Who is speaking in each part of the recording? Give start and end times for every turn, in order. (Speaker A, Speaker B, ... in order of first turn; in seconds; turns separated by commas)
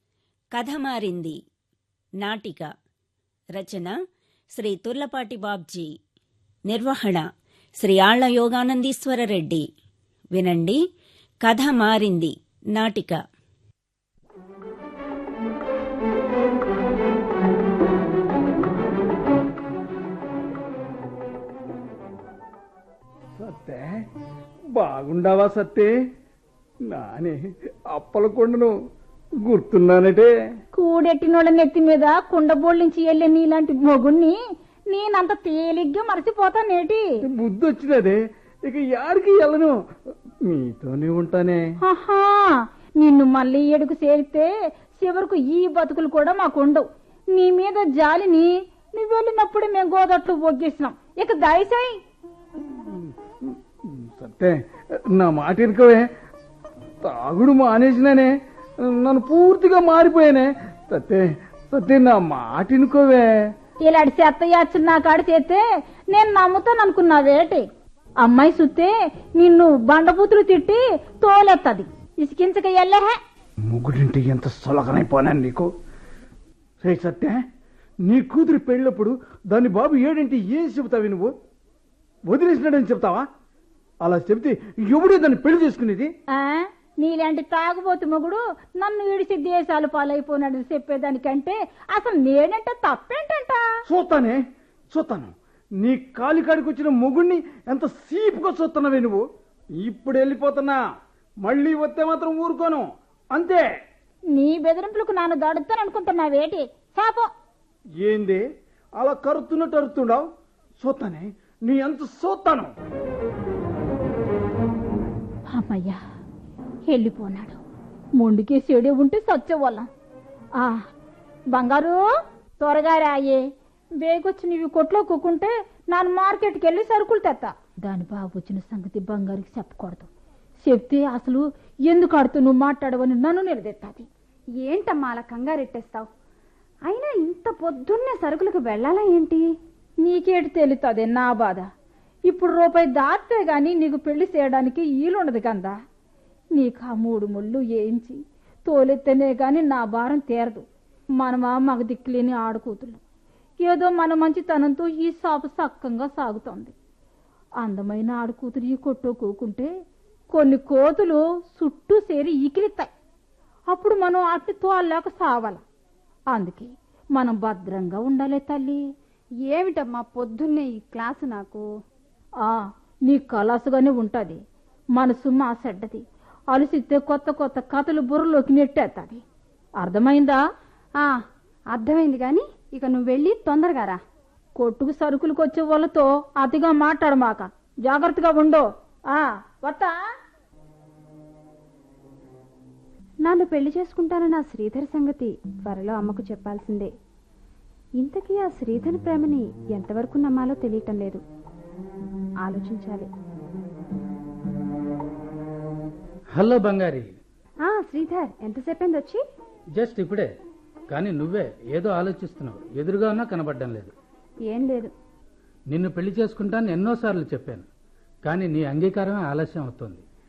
Speaker A: 0.5-1.3, Speaker A: 2.2-2.7, Speaker A: 3.5-3.9, Speaker A: 4.6-5.9, Speaker A: 6.7-7.2, Speaker A: 7.8-9.6, Speaker A: 10.3-10.8, Speaker A: 11.4-13.2, Speaker B: 23.4-24.0, Speaker B: 24.7-25.9, Speaker B: 26.9-27.4, Speaker B: 27.9-28.7, Speaker B: 29.4-30.3, Speaker C: 30.7-34.3, Speaker C: 34.9-37.0, Speaker B: 37.3-39.7, Speaker B: 40.5-41.6, Speaker C: 41.8-52.0, Speaker B: 52.7-54.6, Speaker B: 55.1-56.0, Speaker B: 57.0-63.3, Speaker C: 63.9-67.6, Speaker C: 68.2-73.2, Speaker B: 73.7-75.7, Speaker B: 76.8-77.4, Speaker B: 78.0-81.3, Speaker B: 82.3-83.2, Speaker B: 84.0-86.1, Speaker C: 86.3-93.6, Speaker B: 93.9-94.4, Speaker B: 94.9-99.2, Speaker B: 99.8-100.8, Speaker B: 101.4-103.7, Speaker C: 104.3-107.3, Speaker B: 108.0-108.4, Speaker B: 109.0-110.2, Speaker B: 110.8-112.7, Speaker C: 115.5-116.0, Speaker C: 116.9-117.6, Speaker C: 118.2-119.9, Speaker C: 121.5-122.0, Speaker C: 122.6-123.4, Speaker C: 124.0-130.1, Speaker C: 130.6-134.1, Speaker D: 134.6-136.1, Speaker D: 136.9-139.4, Speaker C: 140.0-141.7, Speaker C: 142.3-145.7, Speaker C: 146.6-150.6, Speaker C: 151.2-153.0, Speaker C: 153.6-156.7, Speaker C: 157.6-159.7, Speaker C: 160.3-162.9, Speaker C: 163.7-165.6, Speaker C: 166.3-168.8, Speaker D: 169.5-171.6, Speaker C: 173.1-174.4, Speaker C: 175.0-179.2, Speaker C: 179.8-180.4, Speaker D: 181.7-184.0, Speaker C: 184.6-189.9, Speaker D: 193.2-196.9, Speaker D: 198.0-201.2, Speaker D: 202.4-203.1, Speaker E: 206.3-207.2, Speaker D: 207.6-209.2, Speaker E: 209.7-210.3, Speaker E: 210.9-213.9, Speaker D: 214.5-214.9, Speaker E: 215.7-217.7, Speaker E: 218.2-220.0